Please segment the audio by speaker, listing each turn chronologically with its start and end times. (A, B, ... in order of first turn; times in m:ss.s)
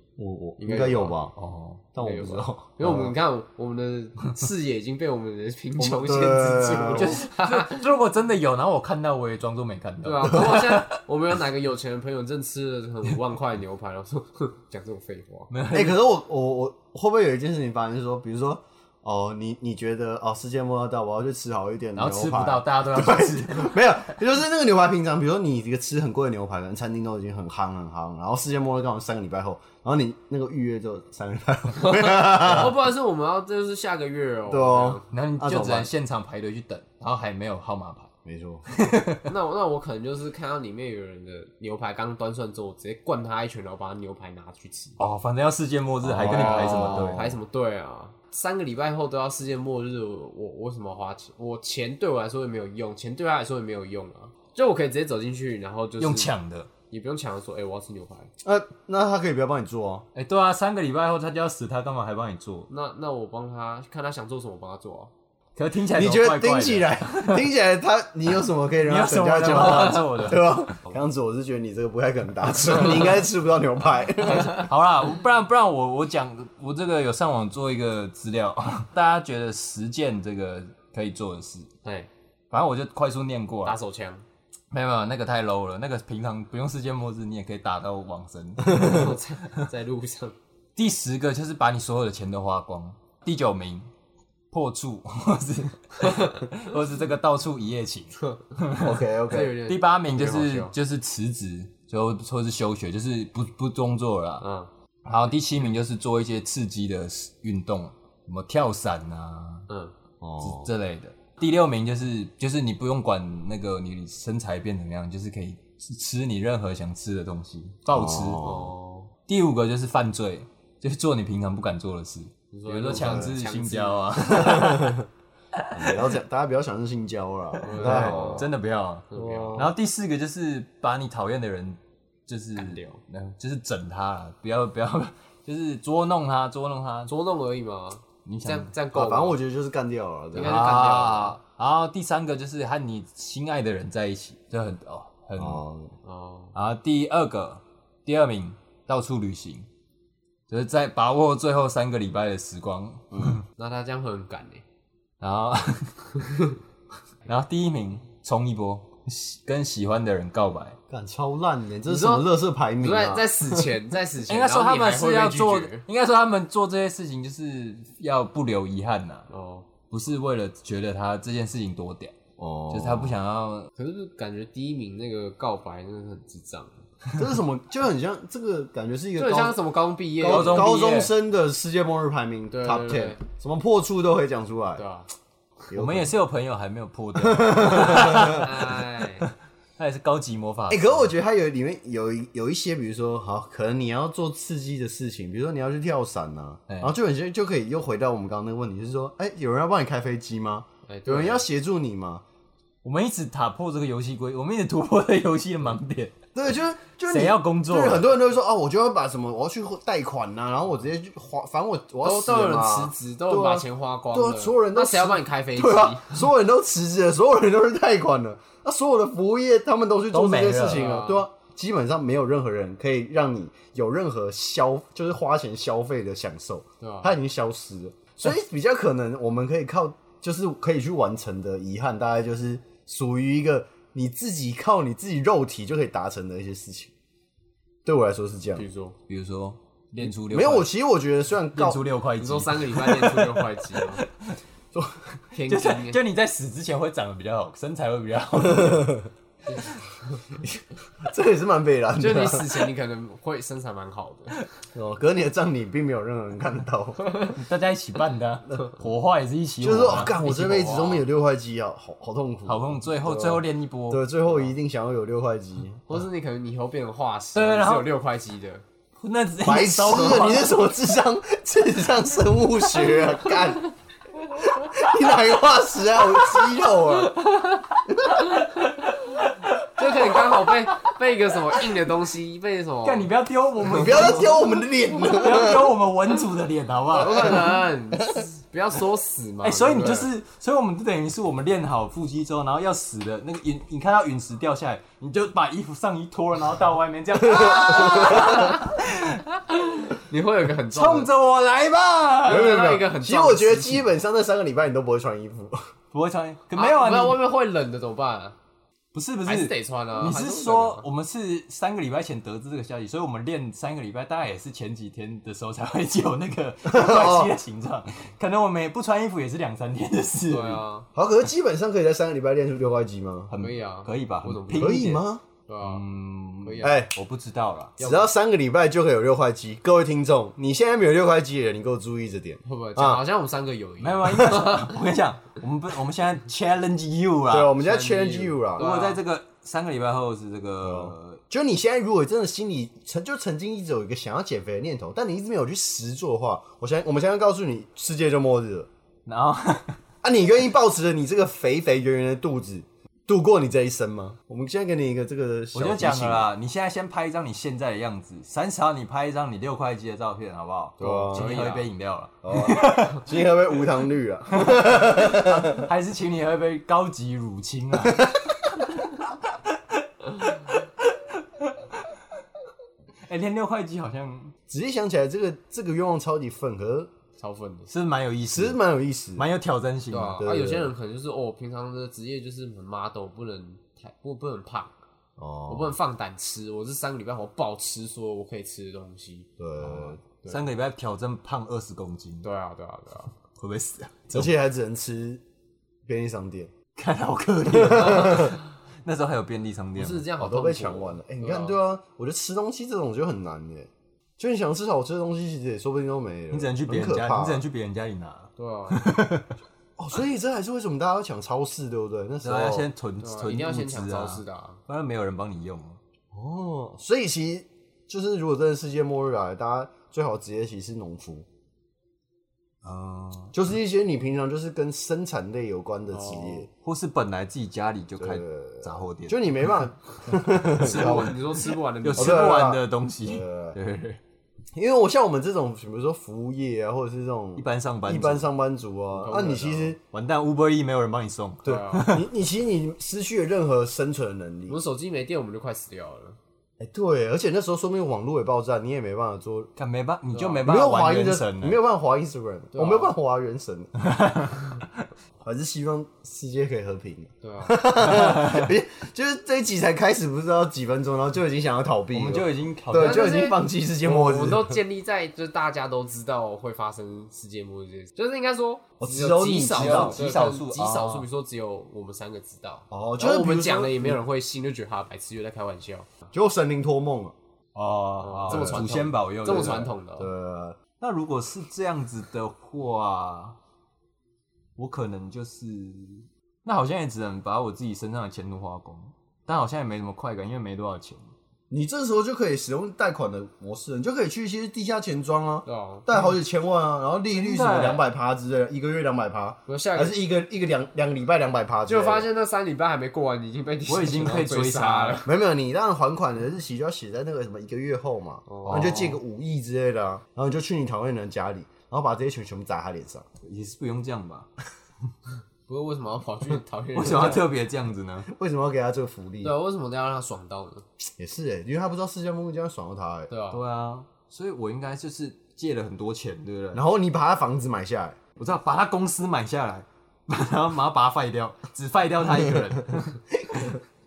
0:00.2-0:01.3 A
0:00.6-0:01.2 B
0:01.4-0:01.8 C
0:01.9-0:03.1 A
0:02.0-0:07.8 B
0:05.8-0:07.2 A
0:07.0-0:10.9 C
0:10.0-0:15.5 B
0:15.5-0:16.0 C
0:15.7-0:32.8 A
0:22.0-0:24.1 C
0:31.8-0:35.1 B
0:34.5-0:35.9 A
0:35.1-0:38.1 C
0:38.2-0:38.7 A
0:38.7-0:39.2 C
0:39.2-0:45.0 B
0:45.0-0:47.4 C
0:46.0-0:47.2 A
0:46.1-0:56.3 B
0:56.0-0:56.7 C
0:56.9-0:58.3 B
0:58.4-1:00.0 A
1:00.1-1:02.7 C
1:02.7-1:05.1 B
1:05.6-1:07.4 C
1:05.9-1:14.7 A
1:08.8-1:10.8 C
1:14.2-1:21.7 C
1:14.4-1:14.6 B
1:21.8-1:22.1 B
1:22.5-1:23.8 C
1:23.6-1:24.2 B
1:24.7-1:29.1 C
1:28.6-1:30.4 B
1:30.8-1:33.9 C
1:34.5-1:44.4 C
1:38.8-1:39.6 A
1:39.3-1:40.7 B
1:44.4-1:44.7 B
1:45.0-1:49.7 C
1:49.7-1:49.9 B
1:50.2-1:50.7 A
1:50.4-1:58.4 C
1:57.9-1:58.7 A
1:58.4-1:59.1 B
1:59.3-2:05.0 C
2:02.5-2:04.6 B
2:02.9-2:03.3 A
2:04.4-2:05.0 A
2:05.6-2:06.0 C
2:05.7-2:08.5 A
2:07.6-2:08.5 B
2:07.7-2:17.1 C
2:09.1-2:09.7 B
2:09.1-2:09.7 A
2:12.6-2:13.0 B
2:17.1-2:19.4 B
2:18.2-2:18.7 C
2:18.9-2:20.6 A
2:20.3-2:21.4 B
2:20.4-2:25.6 C
2:25.4-2:25.9 A
2:26.0-2:26.5 B
2:26.5-2:29.7 C
2:30.5-2:33.4 C
2:33.1-2:33.4 A
2:33.6-2:34.6 B
2:35.2-2:36.1 C
2:37.2-2:40.8 C
2:40.9-2:43.7 A
2:41.9-2:45.8 B
2:44.3-2:49.3 C
2:49.3-2:49.7 B
2:49.9-2:52.1 C
2:52.4-2:53.2 A
2:52.7-2:53.7 C
2:53.8-2:56.8 B
2:57.1-2:59.6 A
2:59.2-3:01.0 B
3:00.2-3:04.8 A
3:00.2-3:01.1 C
3:02.5-3:03.2 B
3:04.8-3:05.1 B
3:05.7-3:06.1 A
3:05.7-3:11.1 C
3:07.2-3:08.4 A
3:08.0-3:09.2 B
3:10.7-3:22.2 A
3:16.7-3:16.9 C
3:20.9-3:21.5 B
3:22.8-3:26.2 C
3:26.4-3:56.9 A
3:27.0-3:28.1 C
3:32.0-3:36.1 B
3:40.1-3:40.9 C
3:40.6-3:41.3 B
3:46.8-3:47.1 B
3:57.8-3:58.6 A
3:58.6-3:59.0 B
3:59.1-4:00.7 C
4:00.0-4:01.8 A
4:01.5-4:04.3 C
4:02.2-4:04.0 B
4:05.3-4:06.0 B
4:05.4-4:09.0 C
4:08.4-4:09.0 A
4:11.0-4:12.6 A
4:12.0-4:14.4 B
4:14.7-4:17.0 A
4:17.0-4:17.4 B
4:17.3-4:20.2 C
4:19.6-4:25.8 A
4:19.9-4:21.1 B
4:22.4-4:24.0 C
4:25.9-4:28.6 B
4:27.4-4:27.9 C
4:29.0-4:30.6 C
4:29.4-4:33.7 A
4:34.4-4:37.2 A
4:37.9-4:38.3 A
4:38.3-4:40.9 C
4:39.8-4:43.1 B
4:42.8-4:47.6 C
4:43.6-4:45.8 A
4:46.9-4:50.1 B
4:49.4-4:59.3 C
4:57.2-4:58.4 A
4:57.9-4:58.6 B
4:59.7-5:01.1 B
5:00.7-5:02.6 C
5:02.2-5:03.9 B
5:02.2-5:05.6 A
5:05.9-5:07.2 C
5:06.6-5:08.4 B
5:08.9-5:20.6 C
5:09.2-5:10.9 B
5:16.6-5:17.3 A
5:20.3-5:20.9 B
5:20.9-5:23.3 A
5:23.3-5:25.0 C
5:23.4-5:25.0 B
5:24.6-5:25.2 A
5:25.5-5:25.8 B
5:25.6-5:27.8 C
5:26.4-5:26.8 B
5:26.6-5:26.9 A
5:27.8-5:28.1 B
5:27.8-5:33.0 A
5:32.4-5:34.7 B
5:33.8-5:37.5 C
5:37.3-5:38.7 A
5:37.6-5:39.0 B
5:38.6-5:41.2 C
5:40.6-5:48.7 A
5:49.1-5:49.8 C
5:50.0-5:56.3 A
5:55.5-6:03.1 C
6:00.8-6:01.3 A
6:00.8-6:01.7 B
6:02.2-6:05.7 A
6:04.3-6:08.9 C
6:10.1-6:11.9 C
6:13.1-6:14.4 C
6:14.5-6:16.9 A
6:17.2-6:17.7 B
6:17.7-6:18.6 C
6:18.3-6:19.3 A
6:19.2-6:20.2 C
6:19.9-6:24.7 B
6:20.2-6:20.7 A
6:25.2-6:25.7 A
6:25.5-6:30.4 B
6:29.4-6:30.0 A
6:30.3-6:32.2 C
6:32.2-6:33.1 B
6:33.4-6:34.3 C
6:34.1-6:35.2 A
6:35.9-6:36.5 A
6:36.8-6:40.1 C
6:37.5-6:38.4 A
6:39.8-6:41.6 B
6:40.2-6:47.4 A
6:46.3-6:49.3 C
6:48.4-6:48.9 B
6:49.8-6:52.7 A
6:52.2-6:55.8 C
6:53.0-6:54.6 B
6:56.1-7:01.2 A
7:02.6-7:03.3 C
7:03.3-7:06.5 A
7:05.9-7:06.4 B
7:06.6-7:11.2 C
7:08.0-7:11.2 A
7:10.6-7:12.4 B
7:11.8-7:14.0 C
7:11.9-7:13.6 A
7:14.6-7:19.8 A
7:17.4-7:18.3 C
7:18.9-7:19.8 B
7:19.9-7:22.1 C
7:21.4-7:21.9 B
7:21.5-7:24.6 A
7:24.5-7:26.2 B
7:26.6-7:29.5 A
7:29.6-7:31.6 C
7:30.1-7:30.4 B
7:30.4-7:33.7 A
7:32.5-7:32.9 B
7:33.8-7:34.4 C
7:35.2-7:44.6 A
7:37.2-7:37.6 B
7:37.8-7:38.5 C
7:41.9-7:43.1 C
7:42.7-7:55.9 B
7:48.8-7:50.0 A
7:49.2-7:51.1 C
7:52.7-7:54.0 A
7:56.1-7:57.1 A
7:57.6-7:59.7 C
7:58.0-8:00.1 B
7:58.3-7:58.8 A
7:59.4-8:00.6 A
8:00.8-8:03.4 C
8:04.6-8:11.1 C
8:11.5-8:22.1 A
8:15.4-8:15.9 B
8:17.1-8:17.8 C
8:19.5-8:20.0 B
8:21.7-8:25.1 B
8:23.7-8:25.1 C
8:25.0-8:33.1 A
8:28.3-8:28.8 B
8:28.5-8:29.0 C
8:33.2-8:34.3 C
8:35.5-8:37.2 B
8:36.7-8:38.1 C
8:38.1-8:39.3 A
8:39.2-8:40.6 B
8:41.0-8:43.1 A
8:43.1-8:43.4 B
8:43.3-8:46.6 C
8:46.5-8:48.0 A
8:48.2-8:53.6 C